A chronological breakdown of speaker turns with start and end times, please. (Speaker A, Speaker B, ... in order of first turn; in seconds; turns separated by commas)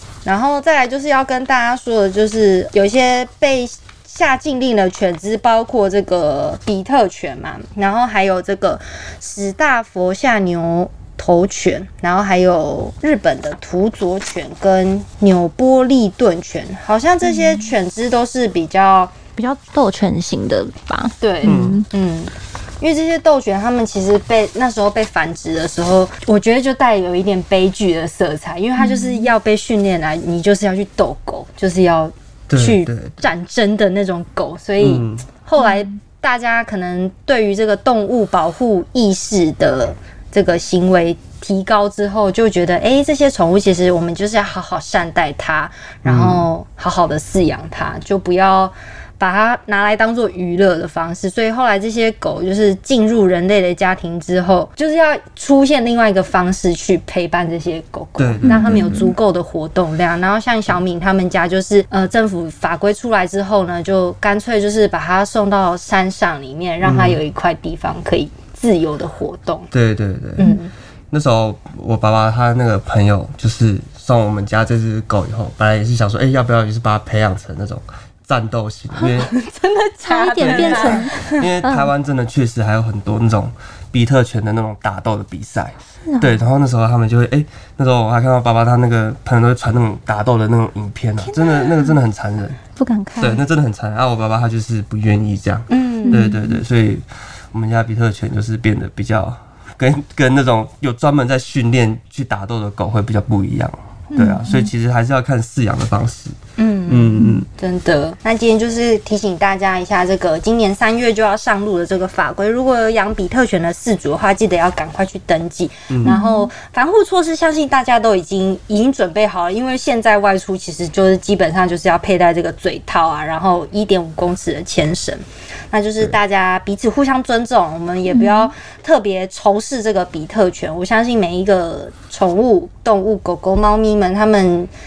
Speaker A: 0.2-19.1, Speaker B: 19.4-21.9, Speaker A: 21.2-69.7, Speaker C: 21.4-21.8, Speaker B: 28.8-29.3, Speaker C: 32.5-33.2, Speaker C: 34.8-35.2, Speaker C: 46.0-46.5, Speaker C: 58.2-59.1, Speaker B: 58.5-59.0, Speaker C: 66.8-67.2, Speaker C: 69.7-70.5, Speaker A: 70.4-70.7, Speaker C: 71.1-79.3, Speaker A: 79.0-81.5, Speaker B: 80.0-81.9, Speaker C: 80.4-92.6, Speaker B: 86.1-86.4, Speaker B: 91.2-92.0, Speaker B: 92.8-93.4, Speaker C: 93.2-106.4, Speaker A: 95.7-96.3, Speaker B: 96.1-96.6, Speaker A: 104.2-104.4, Speaker B: 104.3-104.7, Speaker A: 106.6-134.7, Speaker C: 106.9-107.5, Speaker C: 115.9-116.2, Speaker B: 116.0-116.5, Speaker B: 128.1-128.5